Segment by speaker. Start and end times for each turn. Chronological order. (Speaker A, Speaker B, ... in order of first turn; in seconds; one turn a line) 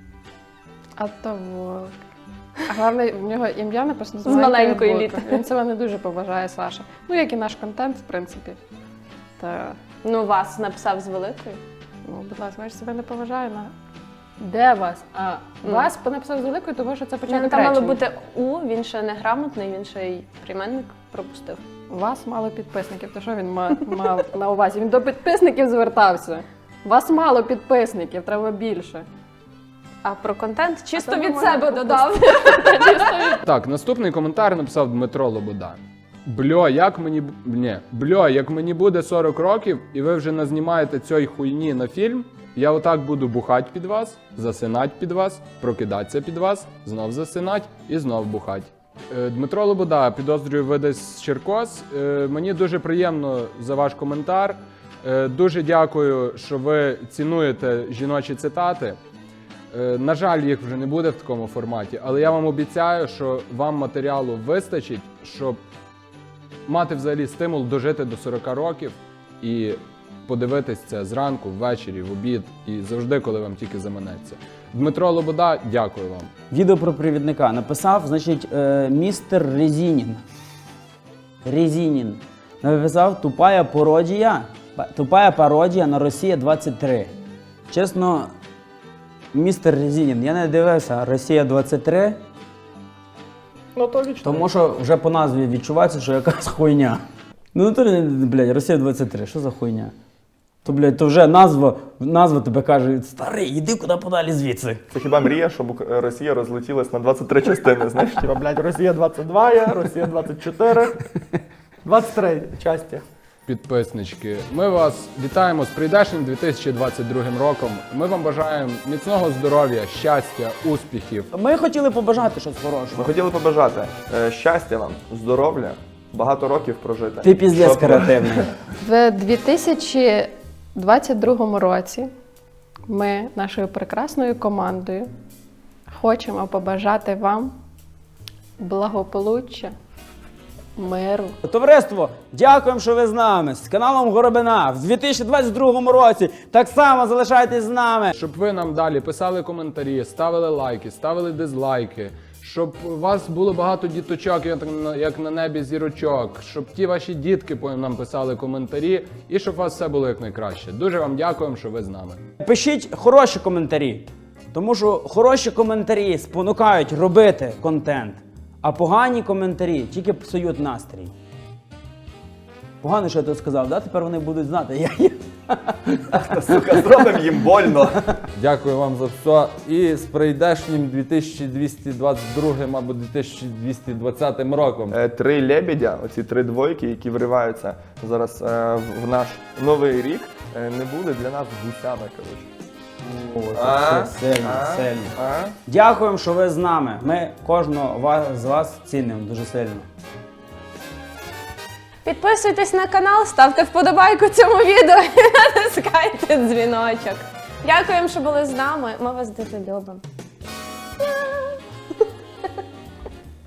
Speaker A: 1.0-1.9
Speaker A: 2.7-8.6
Speaker B: 4.2-5.4
Speaker A: 9.4-9.8
Speaker B: 10.0-11.6
Speaker A: 12.1-13.7
Speaker A: 14.4-18.0
Speaker B: 17.3-21.6
Speaker A: 21.9-29.1
Speaker B: 30.0-33.4
Speaker A: 31.0-33.3
Speaker C: 33.5-59.0
Speaker C: 59.7-65.6
Speaker C: 66.7-76.3
Speaker D: 76.5-80.2
Speaker D: 81.4-87.1
Speaker D: 87.7-88.3
Speaker D: 89.3-92.2
Speaker E: 93.8-94.5
Speaker D: 94.2-97.0
Speaker D: 97.5-99.9
Speaker D: 100.6-104.8
Speaker E: 104.9-108.7
Speaker E: 109.2-110.9
Speaker E: 111.9-113.0
Speaker C: 113.5-121.3
Speaker D: 121.3-123.1
Speaker E: 122.9-128.4
Speaker D: 127.2-128.5
Speaker A: 128.8-132.1
Speaker A: 132.9-135.1
Speaker A: 135.9-137.6
Speaker A: 138.6-139.7
Speaker A: 140.8-141.4
Speaker D: 141.4-148.1
Speaker C: 148.1-162.2
Speaker D: 162.4-171.1
Speaker D: 172.8-176.0
Speaker E: 176.1-178.0
Speaker F: 178.3-185.0
Speaker E: 184.9-192.5
Speaker D: 193.0-195.1
Speaker E: 193.6-195.6
Speaker D: 195.7-199.9
Speaker B: 202.1-210.0